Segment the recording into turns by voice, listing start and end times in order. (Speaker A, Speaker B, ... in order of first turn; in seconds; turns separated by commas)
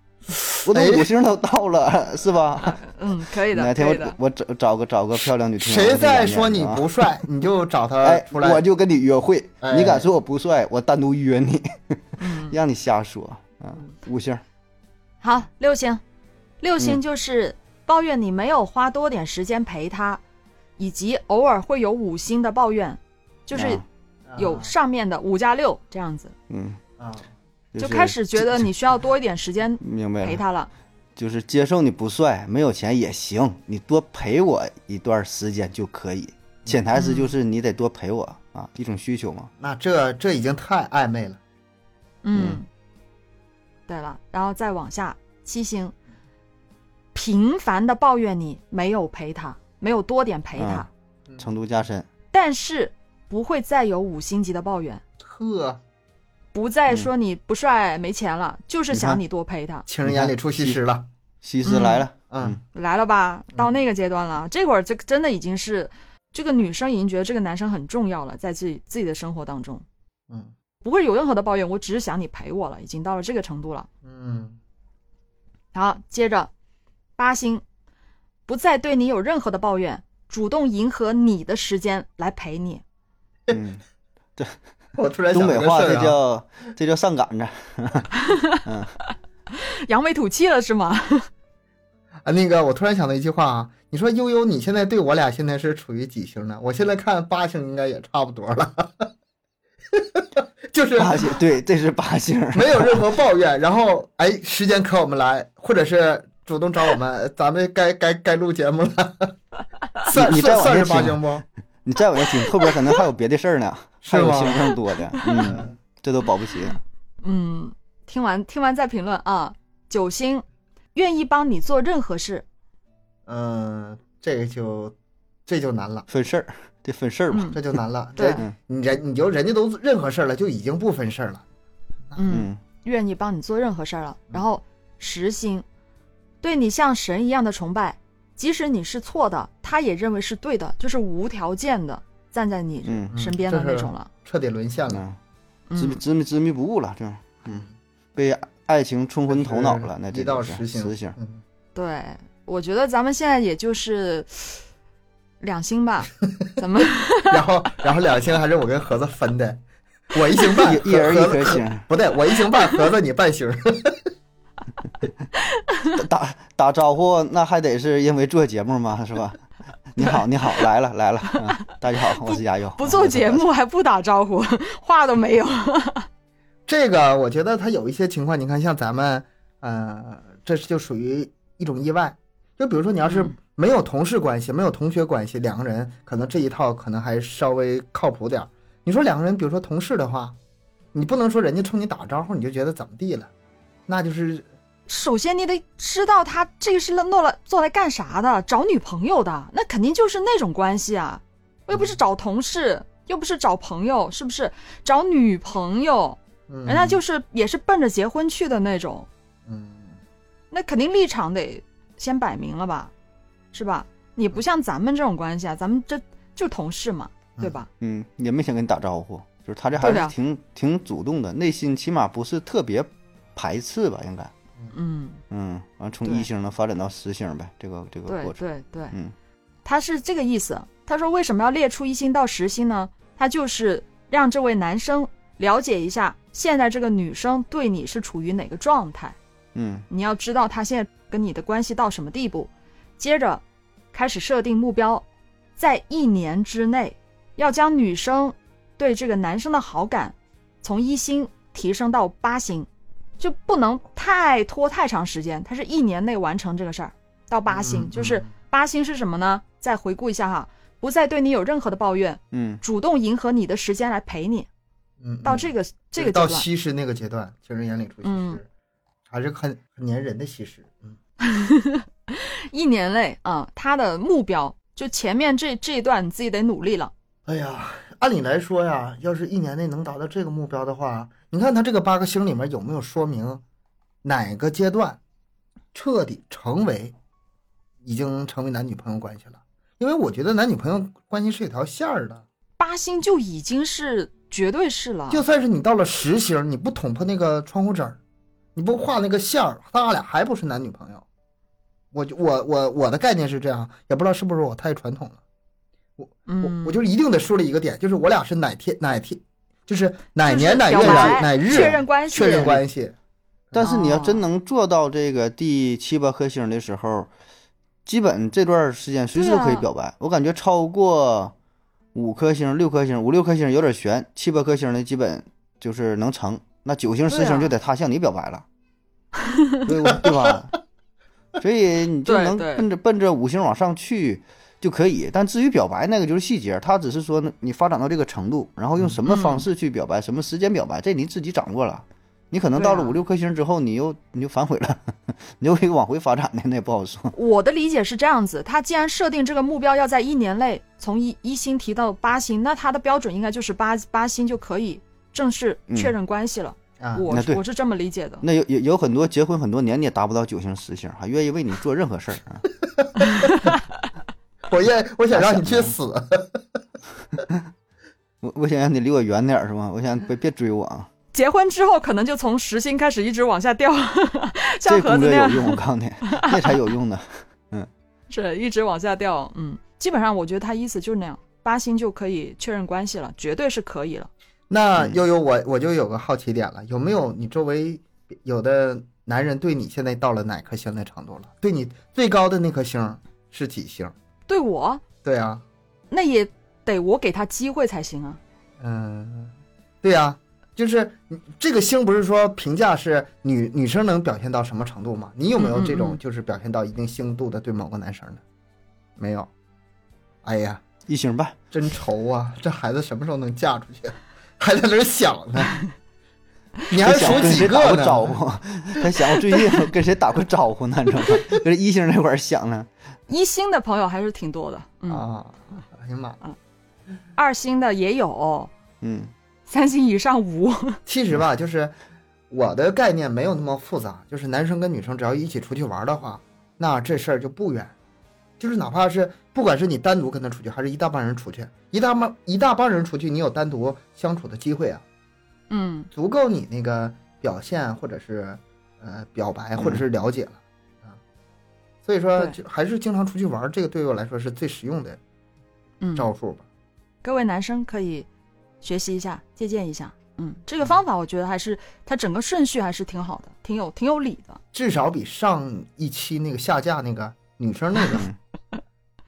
Speaker A: 0.6-2.8, Speaker B: 0.7-1.1, Speaker C: 2.6-4.2, Speaker A: 3.5-6.9, Speaker B: 5.6-8.6, Speaker A: 8.0-14.4, Speaker B: 9.6-10.1, Speaker C: 12.2-12.6, Speaker C: 15.2-16.0, Speaker C: 16.6-20.2, Speaker C: 20.8-23.8, Speaker A: 23.5-23.8, Speaker B: 24.3-24.7, Speaker C: 24.4-26.3, Speaker A: 26.5-26.8, Speaker B: 27.0-27.3, Speaker A: 27.7-28.7, Speaker C: 27.8-30.7, Speaker A: 29.8-30.4, Speaker A: 31.2-39.5, Speaker C: 36.9-37.3, Speaker B: 39.6-41.4, Speaker C: 42.2-42.7, Speaker A: 42.4-42.6, Speaker C: 43.9-45.9, Speaker C: 47.1-50.9, Speaker A: 50.6-50.9, Speaker A: 51.4-52.1, Speaker C: 52.3-55.0, Speaker B: 55.2-55.8, Speaker C: 56.5-59.9, Speaker A: 58.9-59.2, Speaker B: 59.9-61.1, Speaker A: 60.0-60.8, Speaker A: 61.4-62.6, Speaker C: 61.6-62.0, Speaker B: 62.3-62.6, Speaker C: 62.7-69.8, Speaker C: 70.8-73.9, Speaker B: 74.0-74.6, Speaker C: 75.7-76.5, Speaker C: 77.2-77.6, Speaker C: 78.5-82.8, Speaker A: 83.5-83.8, Speaker B: 85.0-86.2, Speaker A: 85.3-89.0, Speaker C: 88.2-88.6, Speaker C: 89.5-91.3, Speaker B: 92.2-99.1, Speaker B: 99.9-101.3, Speaker A: 101.0-103.0, Speaker B: 102.5-109.4, Speaker B: 110.0-111.4, Speaker A: 110.1-116.8, Speaker C: 112.6-113.0, Speaker B: 114.0-114.8, Speaker C: 115.2-115.6, Speaker B: 115.4-115.7, Speaker C: 117.2-122.5, Speaker B: 123.3-125.0, Speaker B: 125.5-126.1, Speaker A: 126.1-127.7, Speaker C: 127.3-127.6, Speaker B: 127.5-131.4, Speaker C: 128.2-128.4, Speaker C: 132.2-135.7, Speaker A: 132.3-132.6, Speaker C: 136.4-144.1, Speaker A: 142.8-143.1, Speaker B: 143.1-145.0, Speaker A: 144.9-145.2, Speaker C: 145.7-146.0, Speaker A: 145.8-147.7, Speaker A: 148.2-151.2, Speaker B: 149.3-151.4, Speaker C: 151.8-154.6, Speaker C: 155.4-157.4, Speaker B: 157.3-159.6, Speaker B: 160.1-164.0, Speaker A: 160.6-161.9, Speaker C: 165.6-165.9, Speaker A: 165.9-173.4, Speaker C: 170.0-170.7, Speaker C: 172.1-176.1, Speaker B: 176.7-190.4, Speaker C: 183.1-183.3, Speaker B: 190.9-193.3, Speaker B: 193.9-194.5, Speaker C: 194.9-209.1, Speaker B: 206.5-207.0, Speaker B: 209.5-210.0, Speaker C: 210.5-212.9, Speaker C: 213.5-217.7, Speaker A: 217.8-224.3, Speaker C: 219.8-220.1, Speaker C: 224.7-225.2, Speaker A: 225.3-228.4, Speaker C: 228.1-228.9, Speaker C: 229.7-239.2, Speaker A: 239.6-239.9, Speaker C: 239.9-245.1, Speaker C: 245.6-252.7, Speaker C: 253.2-264.5, Speaker B: 257.5-258.3, Speaker A: 262.3-262.6, Speaker B: 265.0-268.5, Speaker C: 265.2-266.5, Speaker C: 268.0-268.4, Speaker B: 269.1-271.0, Speaker C: 271.2-276.9, Speaker B: 277.3-283.4, Speaker B: 284.0-285.0, Speaker B: 285.7-286.9, Speaker B: 287.8-292.2, Speaker C: 292.6-295.2, Speaker B: 295.1-298.0, Speaker B: 298.6-301.0, Speaker B: 301.9-305.2, Speaker B: 306.0-312.9, Speaker C: 306.3-306.8, Speaker C: 310.2-312.6, Speaker A: 310.8-311.8, Speaker A: 313.5-317.1, Speaker C: 313.6-314.2, Speaker A: 317.9-321.3, Speaker C: 319.1-319.7, Speaker A: 321.9-328.4, Speaker C: 327.1-327.5, Speaker C: 329.2-329.7, Speaker A: 329.7-330.6, Speaker B: 329.9-330.4, Speaker A: 331.4-347.1, Speaker C: 332.1-332.7, Speaker C: 339.1-339.5, Speaker C: 342.6-343.0, Speaker C: 347.1-358.2, Speaker B: 356.8-357.1, Speaker A: 357.1-357.4, Speaker A: 358.2-362.5, Speaker C: 363.0-363.6, Speaker B: 364.5-366.4, Speaker A: 365.1-365.7, Speaker A: 368.2-370.9, Speaker C: 371.1-376.6, Speaker A: 374.7-377.7, Speaker C: 378.1-384.1, Speaker B: 384.5-393.9, Speaker C: 394.3-394.8, Speaker B: 395.0-395.4, Speaker C: 395.9-398.2, Speaker B: 398.6-408.2, Speaker C: 405.4-406.0, Speaker B: 409.0-409.3, Speaker B: 410.2-410.6, Speaker A: 410.9-411.4, Speaker B: 411.5-415.5, Speaker B: 416.7-418.2, Speaker A: 416.8-422.7, Speaker C: 417.1-417.4, Speaker C: 423.1-425.1, Speaker B: 424.9-426.2, Speaker C: 427.2-428.5, Speaker A: 428.8-429.1, Speaker C: 429.5-430.8, Speaker B: 430.9-431.7, Speaker B: 432.3-437.7, Speaker B: 438.4-444.8, Speaker C: 445.5-445.9, Speaker B: 445.9-451.0, Speaker A: 449.6-449.8, Speaker B: 451.9-455.0, Speaker C: 455.8-456.1, Speaker B: 455.9-456.4, Speaker C: 457.0-458.1, Speaker C: 458.6-464.4, Speaker B: 464.5-468.1, Speaker A: 467.9-468.2